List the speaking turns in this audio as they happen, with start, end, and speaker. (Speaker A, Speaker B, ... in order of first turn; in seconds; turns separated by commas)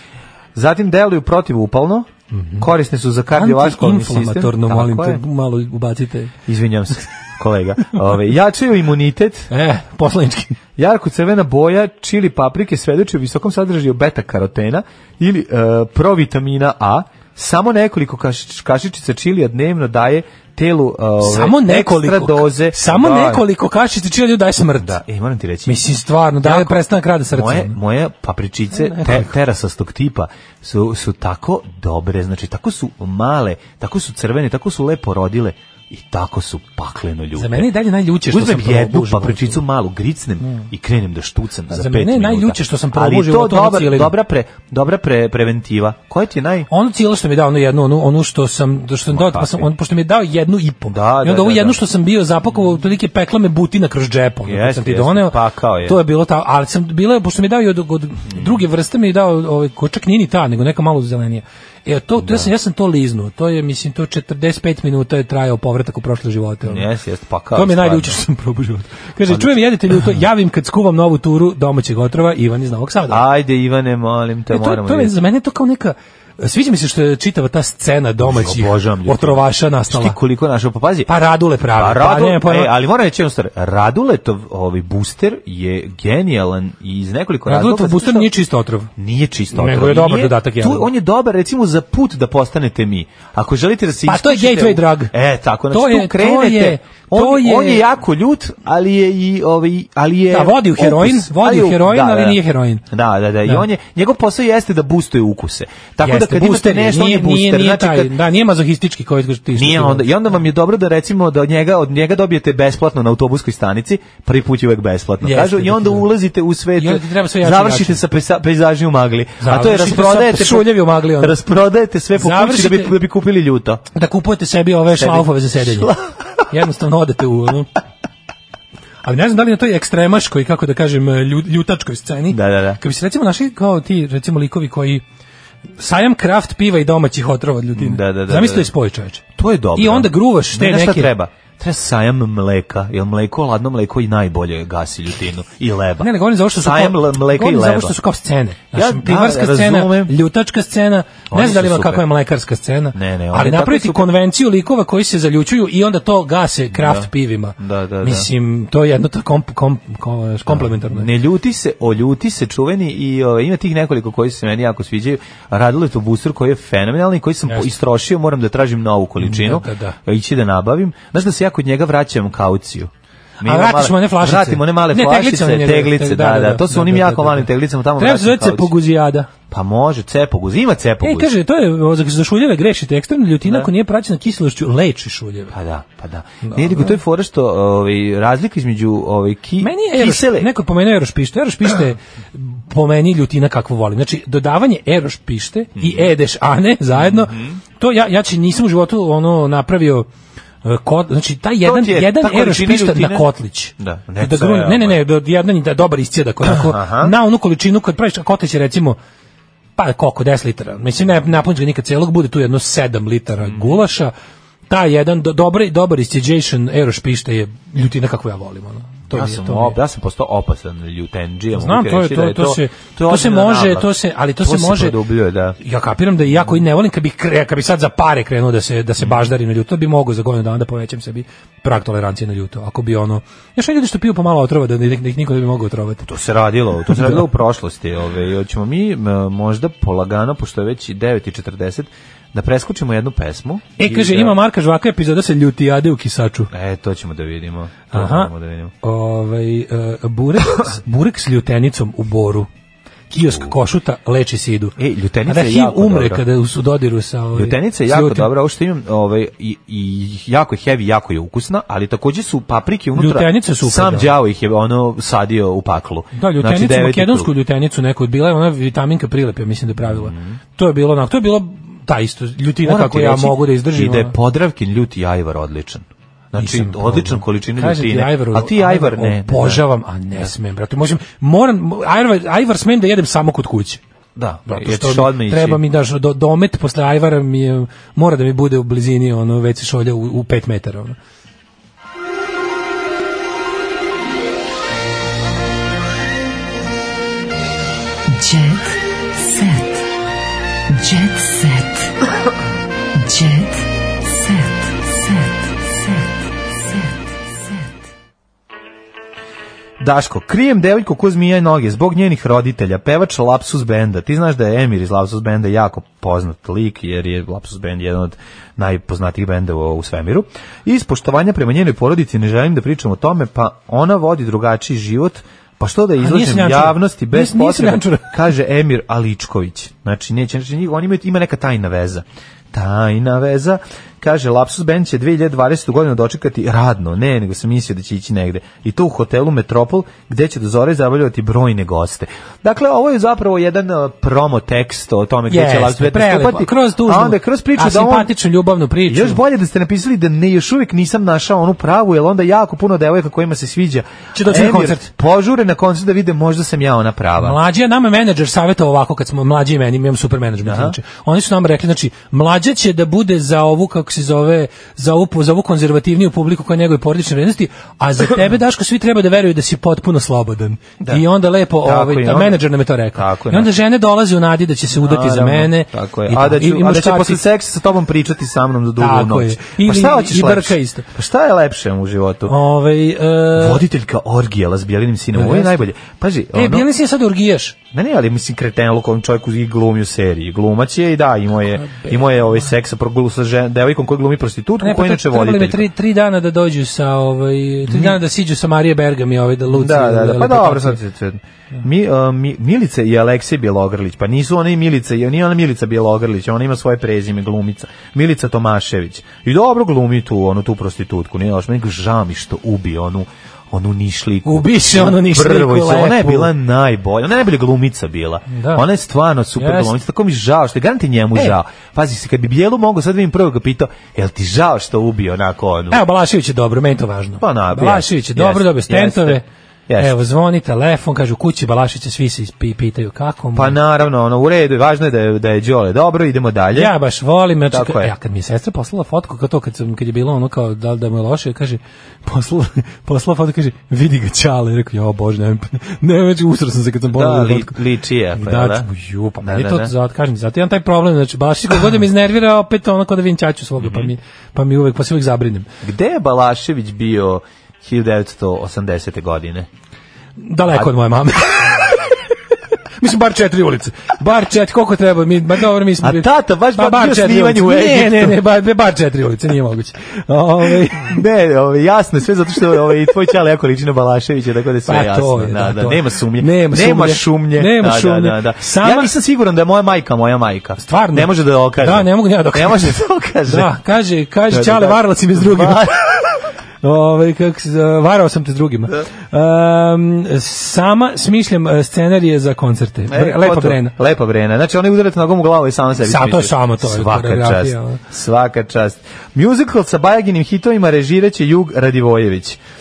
Speaker A: 0.6-5.2, Speaker B: 2.3-2.7, Speaker B: 3.4-6.3, Speaker A: 6.5-9.5, Speaker B: 9.5-10.6, Speaker A: 10.8-23.4, Speaker B: 21.2-25.0, Speaker A: 24.8-25.8, Speaker B: 25.7-27.8, Speaker A: 26.4-37.7, Speaker B: 28.8-29.3, Speaker B: 37.4-39.6, Speaker A: 38.3-46.7, Speaker B: 40.4-40.7, Speaker B: 41.7-44.1, Speaker B: 46.7-66.9, Speaker A: 49.1-49.7, Speaker A: 50.9-51.8, Speaker A: 54.5-56.0, Speaker A: 62.2-62.5, Speaker A: 66.7-68.2, Speaker B: 67.5-73.2, Speaker A: 69.3-70.0, Speaker A: 73.1-75.2, Speaker B: 74.5-80.2, Speaker A: 78.2-81.1, Speaker B: 81.1-82.7, Speaker A: 81.7-88.3, Speaker B: 87.5-88.9, Speaker A: 89.0-108.1, Speaker B: 89.5-90.9, Speaker B: 94.1-95.1, Speaker B: 95.7-97.8, Speaker B: 100.3-102.8, Speaker B: 106.0-110.1, Speaker A: 109.5-123.8, Speaker B: 115.2-116.1, Speaker B: 116.8-118.0, Speaker B: 119.4-121.4, Speaker B: 122.2-123.0, Speaker B: 123.9-125.9, Speaker A: 124.9-126.4, Speaker B: 126.5-127.7, Speaker B: 129.0-135.0, Speaker A: 132.3-132.8, Speaker B: 135.8-139.2, Speaker A: 137.8-138.7, Speaker A: 139.4-147.9, Speaker B: 139.8-141.1, Speaker B: 146.0-161.1, Speaker A: 148.7-150.2, Speaker A: 151.3-152.1, Speaker A: 152.9-154.1, Speaker A: 156.7-158.3, Speaker A: 160.5-178.8, Speaker B: 169.2-170.0, Speaker B: 173.4-179.3, Speaker A: 179.5-181.3, Speaker B: 181.0-185.6, Speaker A: 183.4-183.7, Speaker A: 185.5-190.5, Speaker B: 186.4-187.0, Speaker B: 189.6-200.1, Speaker A: 195.8-196.1, Speaker A: 197.0-197.6, Speaker B: 200.6-209.0, Speaker A: 201.6-205.0, Speaker A: 206.4-207.1, Speaker B: 209.8-214.1, Speaker A: 213.4-213.8, Speaker B: 214.7-219.8, Speaker A: 219.1-225.6, Speaker B: 221.6-225.0, Speaker B: 225.6-236.1, Speaker A: 229.0-229.3, Speaker A: 236.0-244.4, Speaker B: 236.9-237.2, Speaker B: 243.8-246.5, Speaker A: 246.5-248.7, Speaker B: 247.9-248.3, Speaker B: 248.8-252.5, Speaker B: 253.1-258.3, Speaker A: 253.2-253.5, Speaker A: 254.8-256.2, Speaker A: 257.4-267.3, Speaker B: 263.0-264.1, Speaker B: 266.1-274.1, Speaker A: 269.8-270.4, Speaker A: 272.6-279.7, Speaker B: 276.4-283.8, Speaker A: 284.2-285.6, Speaker B: 284.5-291.0, Speaker C: 298.1-299.9, Speaker C: 300.7-301.9, Speaker C: 303.0-307.8, Speaker A: 309.8-348.1, Speaker B: 326.0-328.1, Speaker B: 345.3-349.2, Speaker A: 348.9-357.4, Speaker B: 354.1-354.9, Speaker B: 357.2-377.2, Speaker A: 360.4-360.8, Speaker A: 371.6-372.4, Speaker A: 372.9-373.6, Speaker A: 374.8-382.4, Speaker B: 378.8-380.9, Speaker B: 382.3-383.6, Speaker A: 383.3-386.7, Speaker B: 385.1-385.6, Speaker B: 386.3-387.6, Speaker A: 387.7-395.7, Speaker B: 391.6-392.4, Speaker B: 394.6-400.8, Speaker A: 397.7-398.0, Speaker A: 399.5-425.8, Speaker B: 414.2-416.3, Speaker B: 418.3-418.6, Speaker B: 419.4-419.7, Speaker B: 425.7-429.3, Speaker A: 427.2-430.0, Speaker B: 429.8-433.6, Speaker A: 433.4-436.7, Speaker B: 436.6-447.6, Speaker A: 437.5-437.9, Speaker A: 446.9-448.7, Speaker B: 448.1-455.5, Speaker A: 449.2-449.7, Speaker A: 453.6-453.9, Speaker A: 455.6-459.5, Speaker B: 460.2-461.9, Speaker B: 462.8-471.0, Speaker A: 465.8-468.2, Speaker A: 470.7-483.5, Speaker B: 474.7-478.9, Speaker B: 480.6-485.8, Speaker A: 484.3-485.9, Speaker B: 486.6-493.8, Speaker A: 492.9-502.4, Speaker B: 495.8-497.8